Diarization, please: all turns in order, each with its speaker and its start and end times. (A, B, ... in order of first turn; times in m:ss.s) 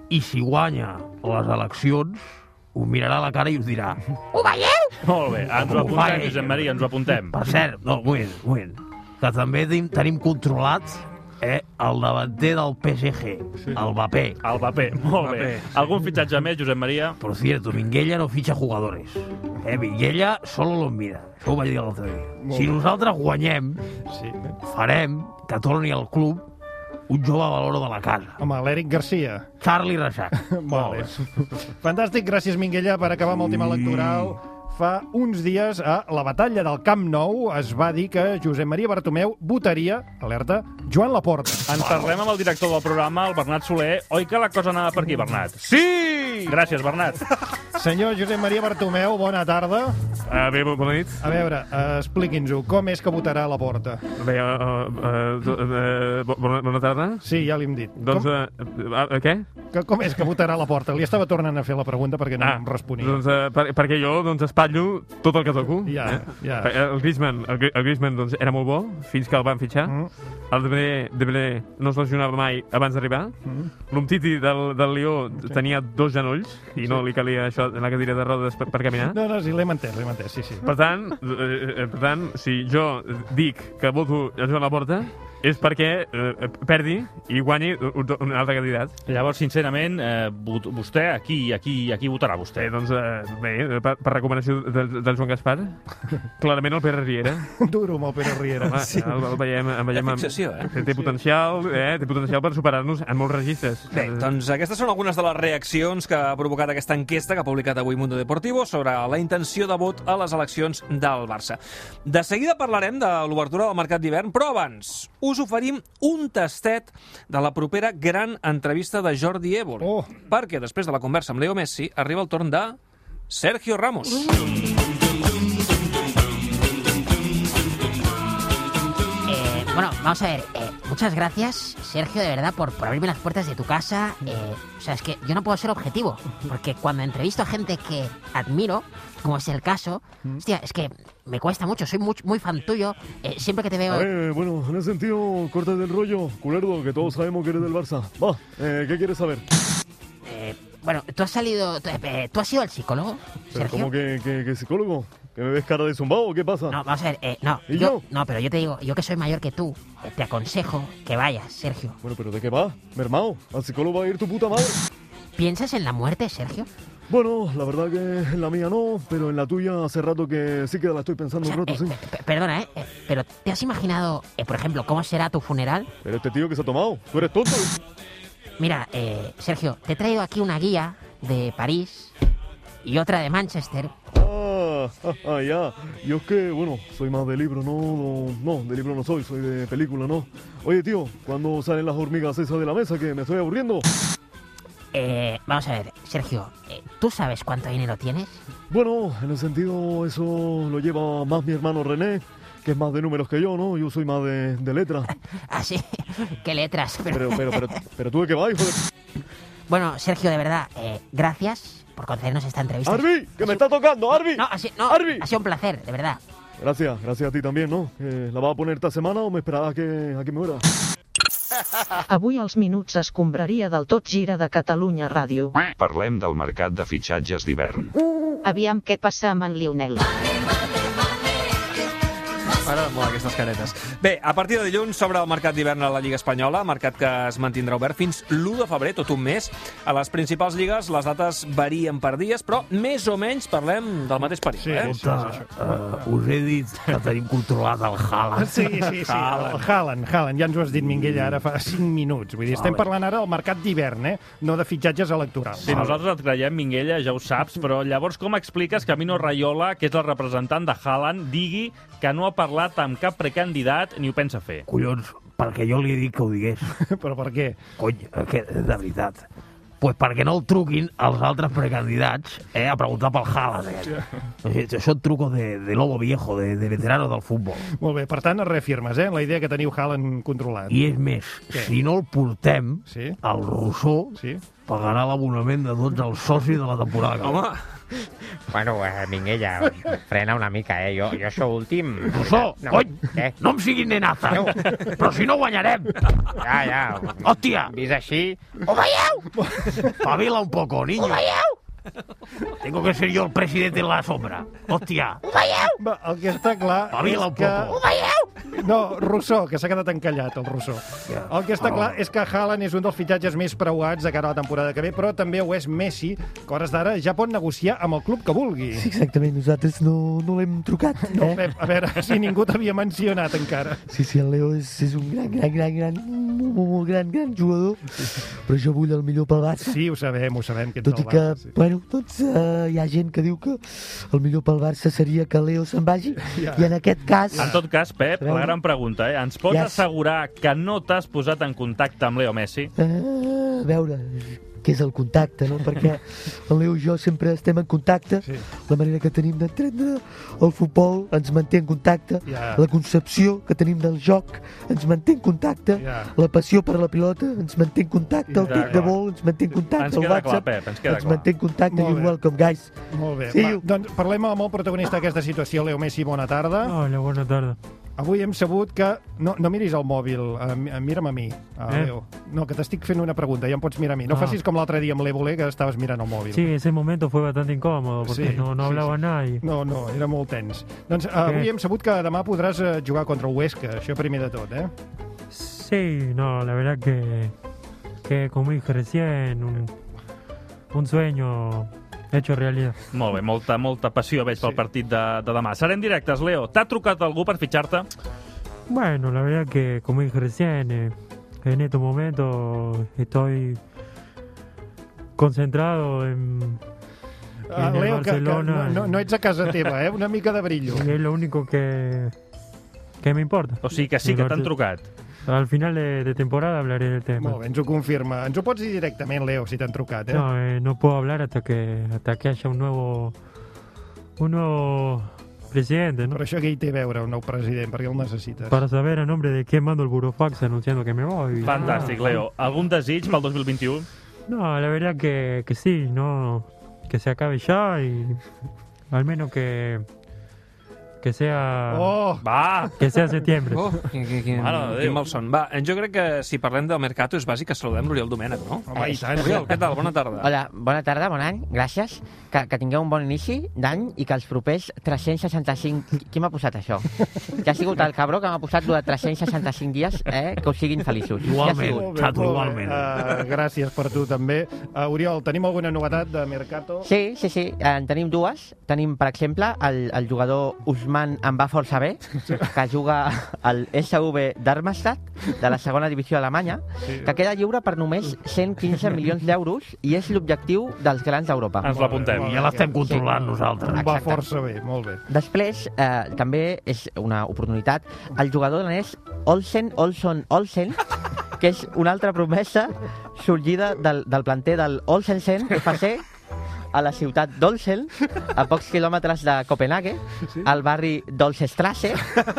0:00.1-0:04.9 A
0:05.0-0:07.4 B
0:05.6-0:06.6 A
0:07.3-0:14.4 A
0:14.4-0:17.2 B
0:15.2-0:15.8 C
0:17.2-0:23.8 A
0:22.4-0:22.8 D
0:24.1-0:24.5 D
0:24.6-0:26.4 A
0:27.1-0:28.4 A
0:28.4-0:29.5 D
0:29.6-0:31.1 A
0:30.3-0:41.8 D
0:33.2-0:34.4 A
0:41.7-0:45.6 B
0:46.4-0:47.2 B
0:47.7-0:50.0 D
0:50.3-0:51.2 E
0:51.2-0:54.0 D
0:54.2-0:57.2 E
0:57.2-0:58.3 D
0:57.9-0:59.4 E
0:59.7-1:03.2 D
1:02.4-1:10.0 E
1:05.8-1:06.7 D
1:10.5-1:13.4 E
1:13.4-1:13.7 D
1:13.9-1:19.2 E
1:19.1-1:20.7 D
1:20.6-1:28.9 E
1:29.0-1:32.7 B
1:32.6-1:35.8 E
1:36.4-1:37.4 E
1:37.6-1:39.2 D
1:38.6-1:44.4 E
1:39.9-1:40.7 C
1:40.8-1:41.2 D
1:43.9-2:02.8 C
1:59.8-2:00.1 D
2:03.3-2:04.3 C
2:09.3-2:24.0 F
2:23.9-2:29.4 G
2:30.3-2:33.9 F
2:33.5-2:36.8 G
2:36.7-2:41.9 F
2:37.7-2:38.0 G
2:42.0-2:44.8 G
2:45.4-2:46.7 F
2:47.1-2:52.0 G
2:51.4-2:55.9 F
2:56.0-2:57.8 G
2:58.6-3:02.1 F
3:02.8-3:03.9 F
3:04.1-3:13.8 G
3:14.9-3:18.4 F
3:18.7-3:25.1 G
3:25.5-3:25.8 F
3:26.4-3:27.3 F
3:27.1-3:28.8 G
3:29.7-3:33.0 F
3:32.8-3:35.3 G
3:34.4-3:36.2 F
3:36.6-3:40.6 G
3:42.1-3:45.6 H
3:45.7-3:47.9 I
3:48.4-3:50.1 H
3:52.6-4:04.9 C
4:04.6-4:05.4 D
4:04.8-4:08.7 A
4:08.3-4:15.8 D
4:09.0-4:09.6 C
4:10.7-4:11.4 A
4:12.5-4:12.9 A
4:15.6-4:16.0 A
4:15.6-4:24.6 B
4:24.7-4:26.7 A
4:26.7-4:27.6 D
4:27.8-4:29.2 A
4:29.8-4:37.6 A
4:37.8-4:40.8 D
4:40.7-4:47.4 A
4:42.9-4:43.2 D
4:44.1-4:44.4 D
4:47.2-4:47.6 C
4:48.5-4:53.3 J
4:52.1-4:56.0 A
4:54.3-4:54.6 J
4:56.4-4:59.1 J
4:57.2-4:57.7 A
4:59.4-4:59.9 D
5:00.0-5:01.3 A
5:01.0-5:01.5 J
5:02.6-5:05.2 A
5:05.7-5:07.8 D
5:06.9-5:07.8 A
5:08.4-5:18.9 D
5:11.1-5:12.0 A
5:18.7-5:21.5 K
5:21.0-5:23.8 D
5:23.9-5:29.8 K
5:29.6-5:31.6 D
5:30.8-5:37.6 K
5:36.1-5:36.8 D
5:37.3-5:42.7 B
5:38.2-5:38.6 K
5:39.5-5:39.8 K
5:42.8-6:02.7 K
5:48.2-5:48.5 D
5:52.2-5:52.7 D
5:55.7-5:56.1 D
5:58.3-5:58.9 D
5:58.4-5:59.0 B
5:59.8-6:01.3 B
6:01.6-6:02.2 D
6:02.9-6:06.8 D
6:03.2-6:03.6 K
6:06.6-6:07.6 L
6:08.0-6:16.5 D
6:11.7-6:11.9 L
6:14.1-6:14.4 L
6:16.3-6:19.4 L
6:18.0-6:24.7 D
6:21.2-6:21.5 L
6:25.3-6:27.3 L
6:28.0-6:29.7 L
6:30.7-6:32.8 L
6:32.9-6:37.9 B
6:38.7-6:40.9 L
6:41.4-6:43.6 L
6:45.2-6:46.6 L
6:47.5-6:50.9 D
6:47.5-6:49.0 L
6:50.7-6:52.1 L
6:53.0-6:54.5 L
6:53.6-6:54.8 B
6:55.3-6:57.4 L
6:57.2-7:00.2 D
7:00.1-7:03.1 L
7:04.2-7:06.2 L
7:06.1-7:08.6 D
7:08.5-7:12.2 L
7:11.4-7:13.9 B
7:14.3-7:18.2 L
7:18.9-7:19.8 L
7:21.0-7:22.0 L
7:21.7-7:22.2 D
7:22.2-7:22.8 B
7:22.8-7:23.7 L
7:23.5-7:30.3 C
7:24.3-7:25.1 B
7:28.7-7:29.6 D
7:28.7-7:29.5 J
7:30.2-7:41.9 J
7:41.2-7:43.1 A
7:41.6-7:46.9 D
7:46.8-8:01.7 J
7:56.8-7:57.1 D
8:01.6-8:02.2 B
8:01.7-8:02.6 D
8:02.1-8:03.9 A
8:02.5-8:03.1 J
8:03.7-8:04.3 J
8:03.8-8:05.0 D
8:05.1-8:10.8 J
8:11.4-8:16.0 J
8:16.7-8:22.0 J